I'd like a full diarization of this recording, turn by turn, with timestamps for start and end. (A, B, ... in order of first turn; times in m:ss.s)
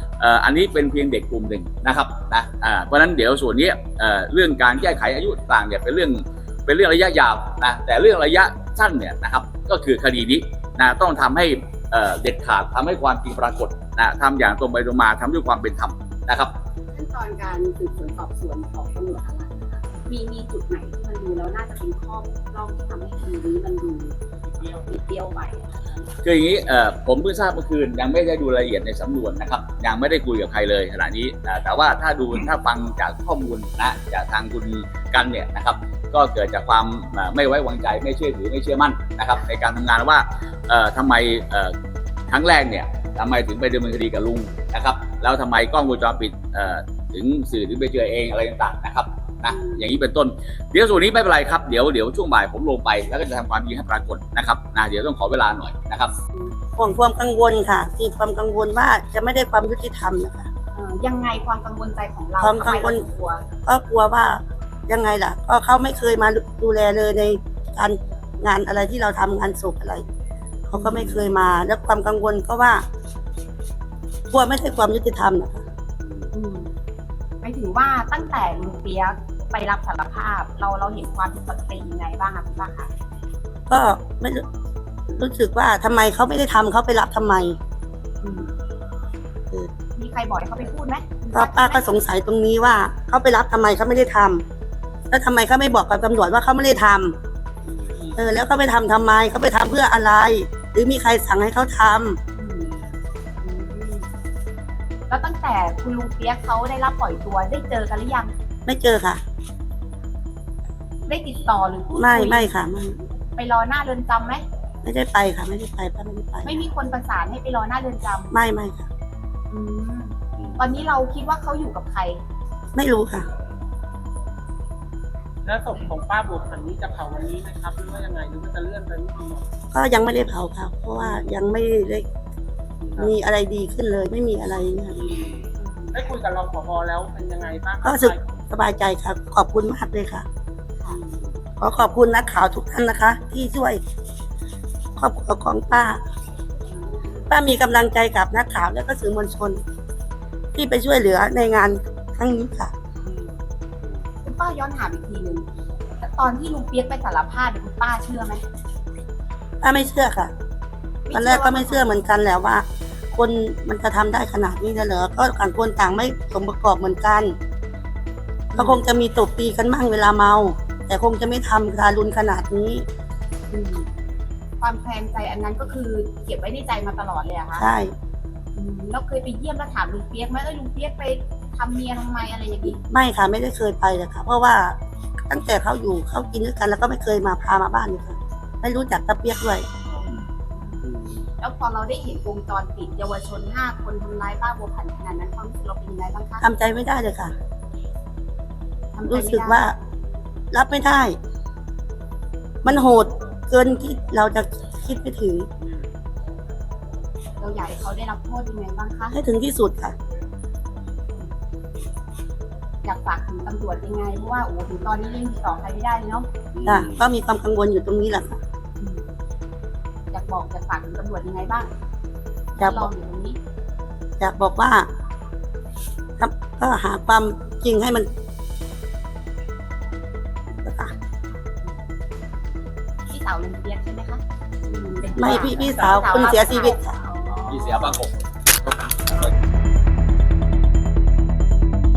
0:00.2-0:16.5 A
0:16.9-0:24.2 B
0:24.7-0:26.1 B
0:26.2-0:41.7 A
0:42.3-0:56.1 A
0:56.8-1:00.5 C
1:00.7-1:03.4 B
1:02.4-1:03.1 C
1:03.6-1:10.0 C
1:10.7-1:12.8 C
1:14.3-1:15.6 C
1:16.3-1:16.7 B
1:17.4-1:22.9 B
1:23.7-1:24.4 C
1:25.1-1:27.6 C
1:28.2-1:28.5 B
1:29.9-1:32.0 B
1:31.3-1:34.4 C
1:35.1-1:37.2 C
1:38.1-1:42.2 C
1:42.4-1:42.8 B
1:43.4-1:44.0 B
1:45.1-1:48.3 B
1:48.6-1:49.2 C
1:51.0-1:52.6 B
1:51.9-1:53.0 C
1:53.3-1:54.4 B
1:54.8-1:56.6 C
1:56.4-1:58.4 B
1:58.3-1:58.9 C
1:59.5-2:02.2 B
2:02.7-2:03.3 C
2:05.4-2:09.4 D
2:09.7-2:12.0 C
2:12.9-2:15.1 C
2:15.6-2:16.0 B
2:15.9-2:18.2 D
2:17.8-2:20.2 C
2:20.8-2:21.2 B
2:21.6-2:23.8 C
2:25.0-2:26.0 C
2:26.7-2:27.2 B
2:27.3-2:29.6 C
2:30.5-2:32.7 C
2:34.2-2:35.4 B
2:36.0-2:38.4 B
2:39.6-2:40.3 C
2:41.1-2:42.0 B
2:41.1-2:47.4 C
2:48.5-2:52.8 C
2:48.6-2:48.8 B
2:53.5-2:53.9 B
2:54.6-2:57.7 B
2:57.5-2:57.9 C
2:58.5-3:02.8 B
3:02.7-3:04.8 C
3:05.3-3:09.6 C
3:10.5-3:10.9 B
3:11.4-3:16.5 B
3:16.4-3:17.3 C
3:18.9-3:19.6 B
3:19.1-3:19.8 C
3:20.5-3:21.2 C
3:22.6-3:25.5 C
3:27.4-3:29.2 B
3:29.1-3:29.9 C
3:32.8-3:36.3 B
3:36.6-3:38.4 C
3:38.8-3:39.0 B
3:40.1-3:41.7 B
3:42.6-3:43.4 B
3:42.6-3:42.9 C
3:44.2-3:44.9 C
3:46.2-3:48.1 C
3:50.5-3:50.9 C
3:53.1-3:57.9 B
3:55.2-3:56.9 C
3:57.5-3:59.3 A